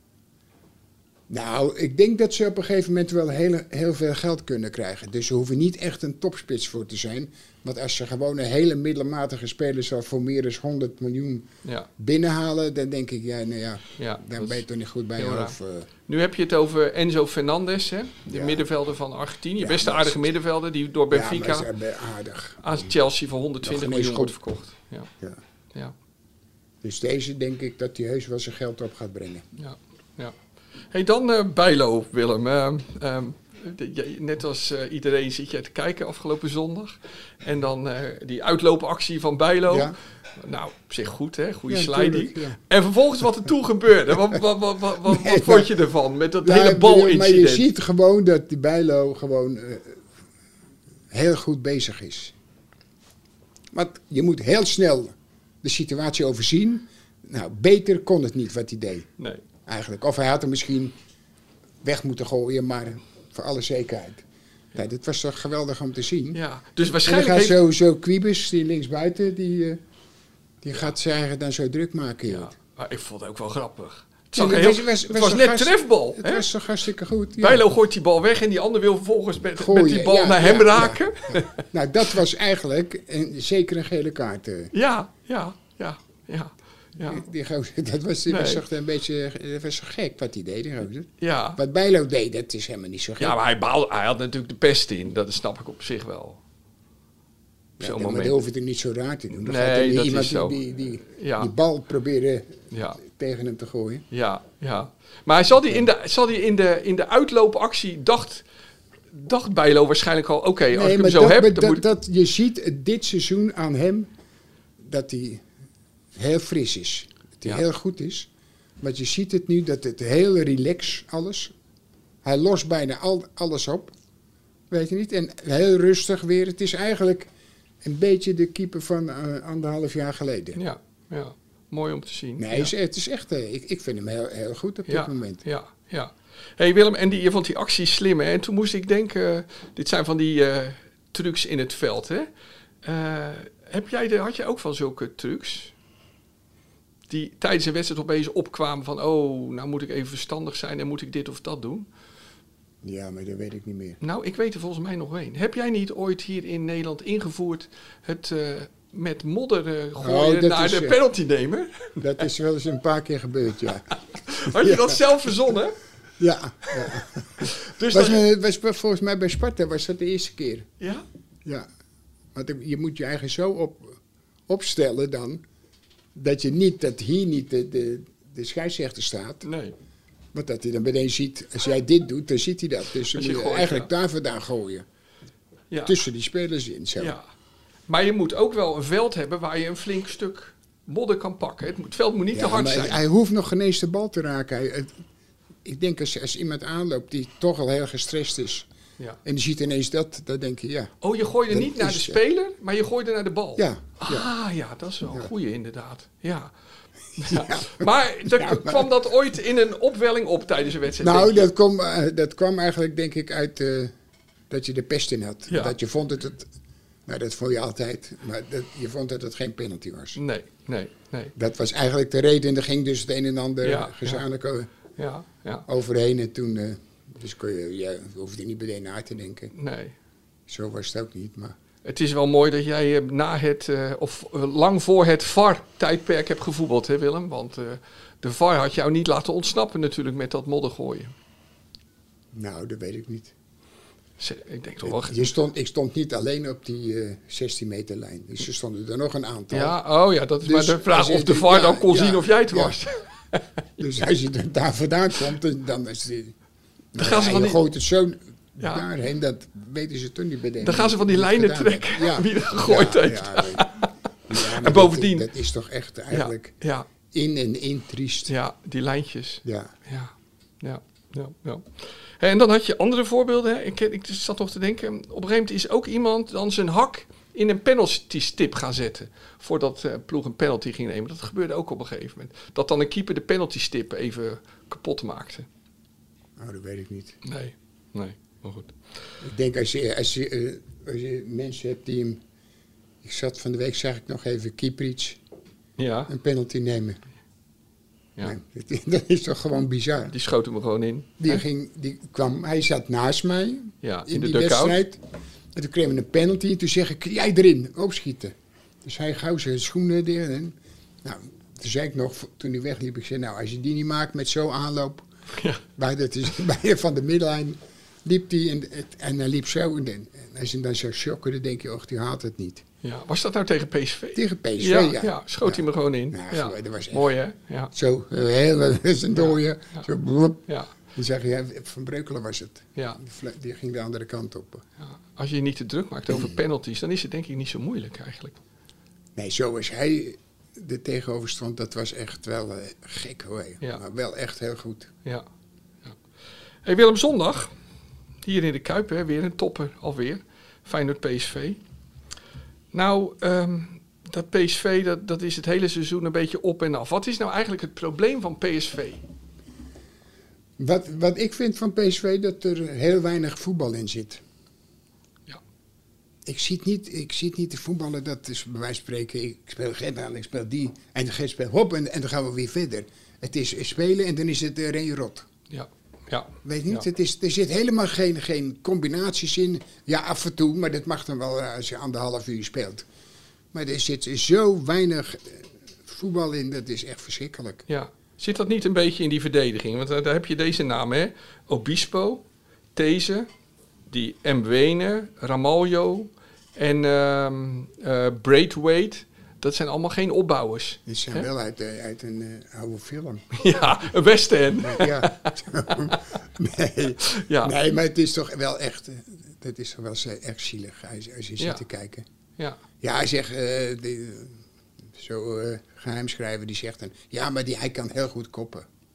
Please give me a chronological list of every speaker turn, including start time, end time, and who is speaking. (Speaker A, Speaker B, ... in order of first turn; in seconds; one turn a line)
Speaker A: 1.3-15.9
Speaker B: 14.0-14.6
Speaker B: 15.2-15.6
Speaker B: 16.1-21.7
Speaker A: 18.3-18.6
Speaker A: 19.6-20.3
Speaker A: 21.1-22.9
Speaker B: 22.6-25.1
Speaker A: 23.6-24.4
Speaker A: 26.8-29.4
Speaker B: 29.6-30.3
Speaker B: 30.9-47.7
Speaker A: 39.7-39.9
Speaker A: 41.7-42.6
Speaker A: 45.0-45.7
Speaker A: 46.4-50.0
Speaker A: 51.1-52.3
Speaker A: 53.7-59.1
Speaker A: 59.6-61.0
Speaker A: 61.8-66.4
Speaker B: 66.3-67.6
Speaker A: 66.9-69.8
Speaker A: 70.6-72.5
Speaker B: 72.3-76.5
Speaker A: 74.3-77.7
Speaker B: 77.4-81.6
Speaker A: 79.5-84.7
Speaker B: 84.7-87.2
Speaker A: 87.0-93.4
Speaker B: 88.3-88.6
Speaker B: 91.2-91.6
Speaker B: 93.2-96.4
Speaker A: 97.8-104.0
Speaker B: 97.8-98.4
Speaker B: 99.4-101.5
Speaker B: 102.7-103.0
Speaker B: 104.1-108.4
Speaker B: 109.1-111.8
Speaker A: 110.7-114.1
Speaker A: 114.8-115.4
Speaker A: 116.1-118.3
Speaker A: 118.8-121.5
Speaker A: 122.2-123.9
Speaker A: 124.7-127.3
Speaker A: 127.8-130.6
Speaker B: 130.5-132.7
Speaker A: 132.4-135.4
Speaker B: 134.9-142.3
Speaker B: 142.8-145.7
Speaker B: 147.1-151.9
Speaker A: 152.8-154.0
Speaker B: 154.0-162.2
Speaker A: 160.0-161.0
Speaker A: 162.0-165.5
Speaker B: 164.1-165.8
Speaker A: 166.2-170.7
Speaker B: 166.7-168.2
Speaker B: 170.8-171.0
Speaker A: 172.3-175.4
Speaker A: 176.1-179.5
Speaker B: 179.4-179.7
Speaker A: 180.3-184.8
Speaker B: 183.1-183.9
Speaker B: 185.7-186.0
Speaker A: 185.8-187.2
Speaker B: 187.0-187.2
Speaker B: 187.9-193.0
Speaker A: 192.3-195.0
Speaker A: 195.6-198.7
Speaker A: 199.2-200.9
Speaker B: 201.0-206.5
Speaker A: 201.5-202.2
Speaker A: 203.6-204.3
Speaker B: 207.2-211.5
Speaker A: 207.2-208.9
Speaker A: 211.0-213.9
Speaker A: 214.5-216.5
Speaker B: 215.5-215.7
Speaker A: 217.1-220.2
Speaker B: 220.2-221.3
Speaker A: 221.3-224.7
Speaker B: 223.6-224.2
Speaker B: 225.0-225.7
Speaker A: 225.7-229.5
Speaker B: 229.5-229.9
Speaker A: 230.5-231.6
Speaker B: 231.8-241.1
Speaker A: 242.3-243.3
Speaker B: 244.2-245.3
Speaker A: 244.8-249.8
Speaker B: 249.5-253.4
Speaker A: 250.4-252.8
Speaker A: 253.8-256.4
Speaker A: 256.9-266.5
Speaker B: 257.0-257.6
Speaker B: 258.6-258.9
Speaker B: 260.6-265.3
Speaker B: 266.1-266.9
Speaker A: 267.1-268.3
Speaker B: 268.3-285.5
Speaker A: 269.4-269.7
Speaker A: 286.4-287.2
Speaker B: 287.2-288.7
Speaker A: 289.2-292.2
Speaker A: 293.0-295.2
Speaker B: 295.8-296.1
Speaker A: 296.1-297.0
Speaker A: 298.2-300.1
Speaker B: 300.1-301.4
Speaker A: 301.2-305.0
Speaker B: 303.8-304.8
Speaker A: 305.5-315.1
Speaker B: 315.3-315.6
Speaker A: 315.8-322.6
Speaker B: 322.8-327.7
Speaker A: 324.1-327.1
Speaker A: 327.7-334.6
Speaker B: 329.1-329.9
Speaker B: 330.5-330.7
Speaker B: 334.8-338.4
Speaker A: 336.1-336.4
Speaker A: 339.1-344.9
Speaker B: 346.6-347.5
Speaker B: 348.2-351.6
Speaker B: 352.7-359.0
Speaker A: 360.6-364.2
Speaker A: 366.2-375.3
Speaker B: 375.5-376.9
Speaker A: 376.4-382.9
Speaker A: 383.5-387.6
Speaker B: 387.7-392.2
Speaker B: 392.8-393.3
Speaker B: 393.9-401.2
Speaker A: 400.9-403.4
Speaker B: 403.3-406.0
Speaker A: 404.6-412.1
Speaker B: 407.0-407.6
Speaker B: 411.4-411.6
Speaker A: 412.8-414.4
Speaker A: 414.9-418.7